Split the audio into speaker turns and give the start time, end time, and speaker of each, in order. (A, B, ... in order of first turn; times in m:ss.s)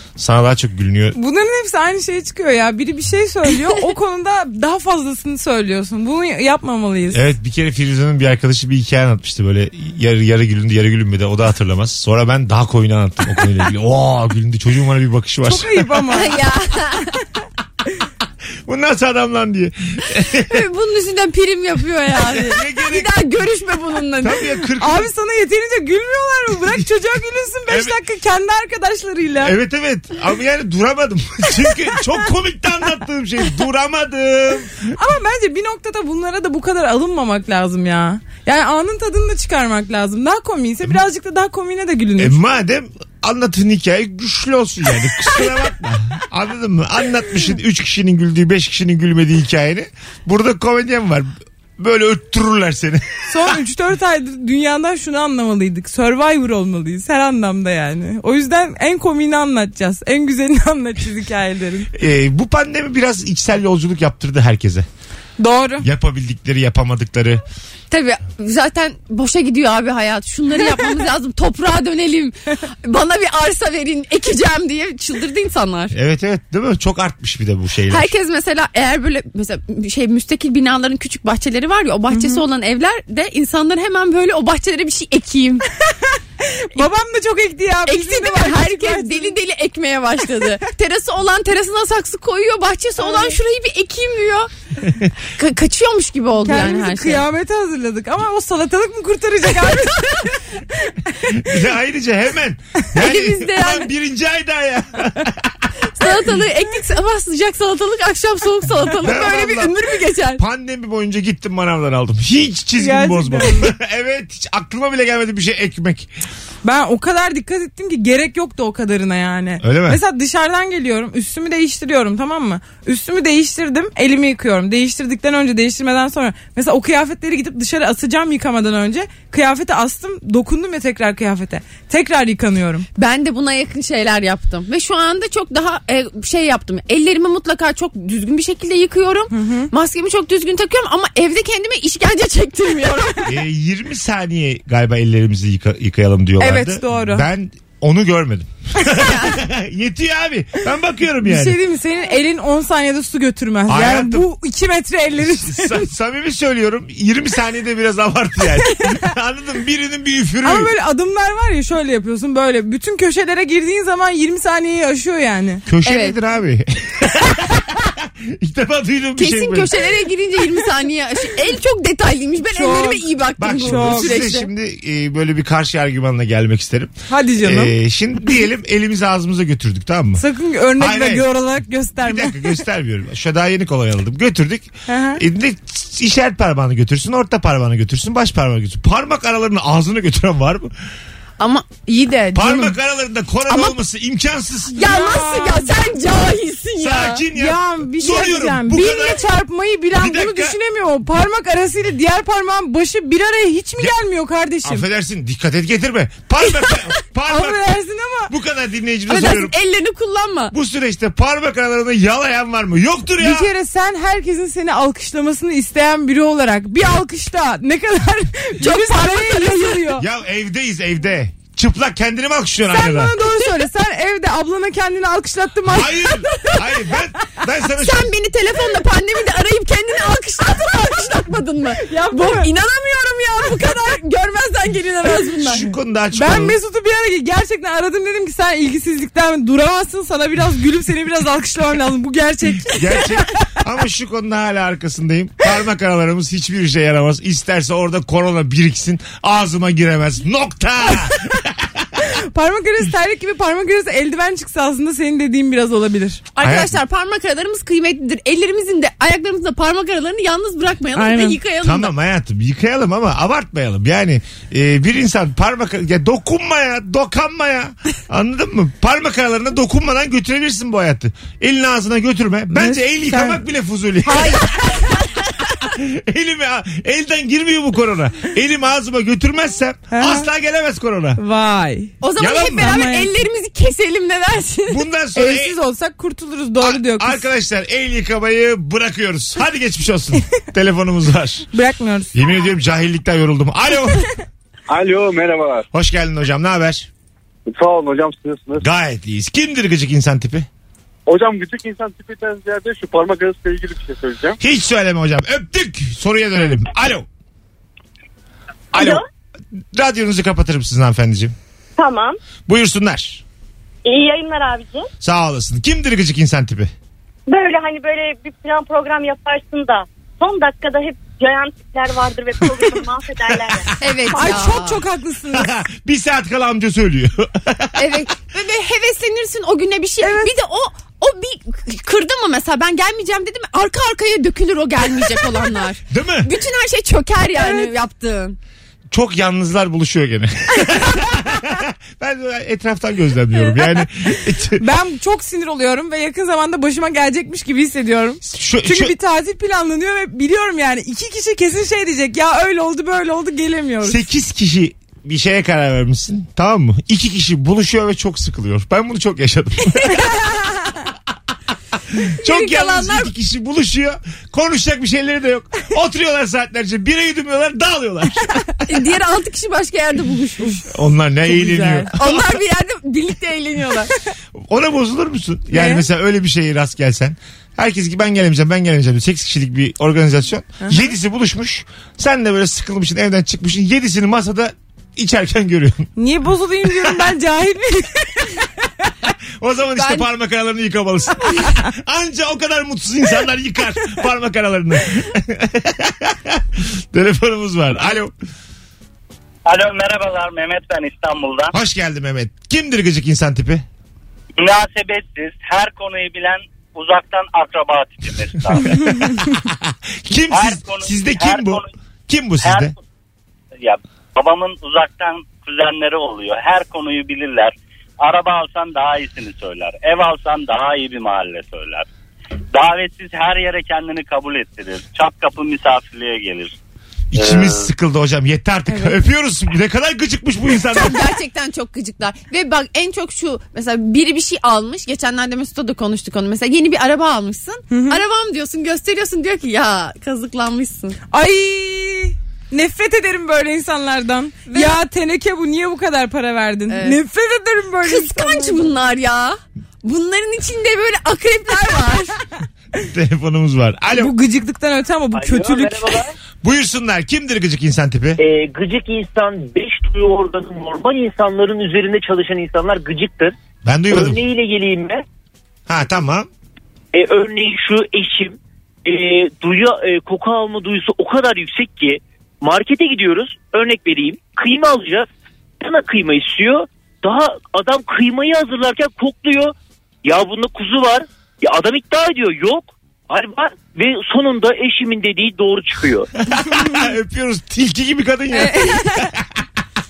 0:00.2-0:01.2 A
0:01.1-0:07.2 B
0:07.1-0:16.1 A
0:15.4-0:16.3 B
0:16.1-0:17.1 C
0:18.6-0:20.6 A
0:20.5-0:24.4 C
0:22.3-0:23.2 A
0:24.2-0:25.1 A
0:24.8-0:29.5 B
0:27.7-0:28.0 A
0:29.4-0:34.9 A
0:34.9-0:42.4 B
0:42.2-0:53.5 A
0:53.3-1:01.9 B
1:01.9-1:04.9 A
1:05.4-1:05.8 B
1:05.8-1:07.4 A
1:07.9-1:15.9 C
1:15.9-1:18.1 A
1:17.9-1:25.6 C
1:22.1-1:22.4 B
1:26.4-1:29.4 B
1:27.8-1:34.5 C
1:33.0-1:33.4 B
1:35.4-1:37.2 C
1:36.4-1:40.2 B
1:41.3-1:45.7 A
1:43.0-1:43.9 C
1:46.0-1:50.4 C
1:49.0-1:49.7 A
1:50.4-1:56.1 A
1:52.8-1:53.7 B
1:56.6-2:12.9 B
1:59.6-2:00.0 A
2:13.0-2:23.3 C
2:19.3-2:19.7 B
2:23.2-2:31.6 A
2:26.4-2:27.2 B
2:28.9-2:29.4 C
2:31.2-2:35.8 B
2:33.7-2:34.3 A
2:35.1-2:40.7 A
2:40.4-2:45.6 B
2:45.6-2:49.8 A
2:45.8-2:46.2 C
2:49.2-2:54.5 C
2:52.5-2:53.0 B
2:53.4-3:00.2 A
2:53.6-2:54.2 B
2:57.1-2:57.7 B
3:00.2-3:02.6 B
3:00.8-3:01.3 A
3:02.0-3:10.7 A
3:04.9-3:05.2 B
3:11.4-3:12.6 C
3:12.3-3:14.8 A
3:13.5-3:13.7 C
3:14.7-3:17.2 C
3:14.8-3:15.7 B
3:16.8-3:19.2 A
3:17.3-3:24.8 B
3:19.9-3:20.6 A
3:24.6-3:27.6 A
3:27.3-3:28.3 B
3:28.3-3:29.5 A
3:29.1-3:30.5 C
3:30.5-3:33.5 A
3:33.2-3:40.0 B
3:38.6-3:39.8 C
3:40.0-3:43.1 A
3:42.7-3:46.1 B
3:45.6-3:48.1 A
3:47.8-3:55.7 C
3:51.8-3:52.5 B
3:55.4-3:56.6 A
3:56.1-4:03.2 B
4:02.6-4:11.8 A
4:12.0-4:16.2 B
4:16.4-4:21.9 C
4:16.4-4:16.8 A
4:20.9-4:21.4 B
4:21.6-4:41.2 A
4:32.5-4:33.4 B
4:34.0-4:35.0 C
4:39.9-4:40.3 B
4:41.2-4:41.9 B
4:42.0-4:44.8 C
4:42.2-4:42.8 A
4:42.6-4:43.1 B
4:44.7-4:45.6 A
4:45.1-4:47.2 B
4:46.6-4:51.5 A
4:51.5-4:52.2 B
4:52.1-4:54.1 A
4:54.7-4:55.7 D
4:55.7-4:56.9 A
4:57.5-4:58.6 D
4:58.6-5:00.5 A
5:01.1-5:04.4 D
5:04.4-5:07.0 A
5:08.7-5:09.0 A
5:08.8-5:09.0 E
5:09.7-5:11.3 A
5:11.8-5:12.2 E
5:12.5-5:13.2 A
5:13.8-5:14.9 E
5:15.0-5:16.7 A
5:17.3-5:23.7 E
5:23.8-5:24.8 C
5:24.1-5:25.5 B
5:25.3-5:28.1 A
5:27.8-5:38.4 C
5:30.0-5:30.3 B
5:35.9-5:36.3 A
5:37.4-5:37.7 B
5:38.9-5:44.6 A
5:44.6-5:54.0 B
5:48.2-5:48.9 A
5:53.8-6:00.2 A
6:02.2-6:08.9 A
6:02.2-6:03.1 C
6:08.7-6:10.6 C
6:10.7-6:12.4 A
6:11.4-6:11.9 B
6:11.9-6:13.9 C
6:14.4-6:25.9 A
6:15.5-6:15.8 B
6:26.0-6:28.5 B
6:26.6-6:27.0 A
6:29.4-6:38.1 A
6:39.4-6:41.5 F
6:41.5-6:43.6 A
6:44.4-6:48.8 F
6:48.6-6:52.7 A
6:50.3-6:51.7 F
6:52.4-6:52.7 F
6:53.6-7:01.8 F
7:02.5-7:06.6 F
7:07.1-7:11.1 A
7:07.2-7:07.6 F
7:08.7-7:09.0 B
7:10.7-7:21.0 C
7:17.7-7:18.0 B
7:21.1-7:28.7 B
7:24.5-7:24.8 C
7:26.7-7:27.0 C
7:27.8-7:32.2 C
7:32.8-7:34.1 A
7:33.9-7:35.9 B
7:36.4-7:38.2 A
7:38.2-7:43.3 G
7:43.6-7:44.2 A
7:43.9-7:45.0 G
7:45.7-7:46.3 A
7:46.9-7:55.1 G
7:55.6-8:06.1 G
8:06.2-8:09.2 A
8:08.3-8:09.1 B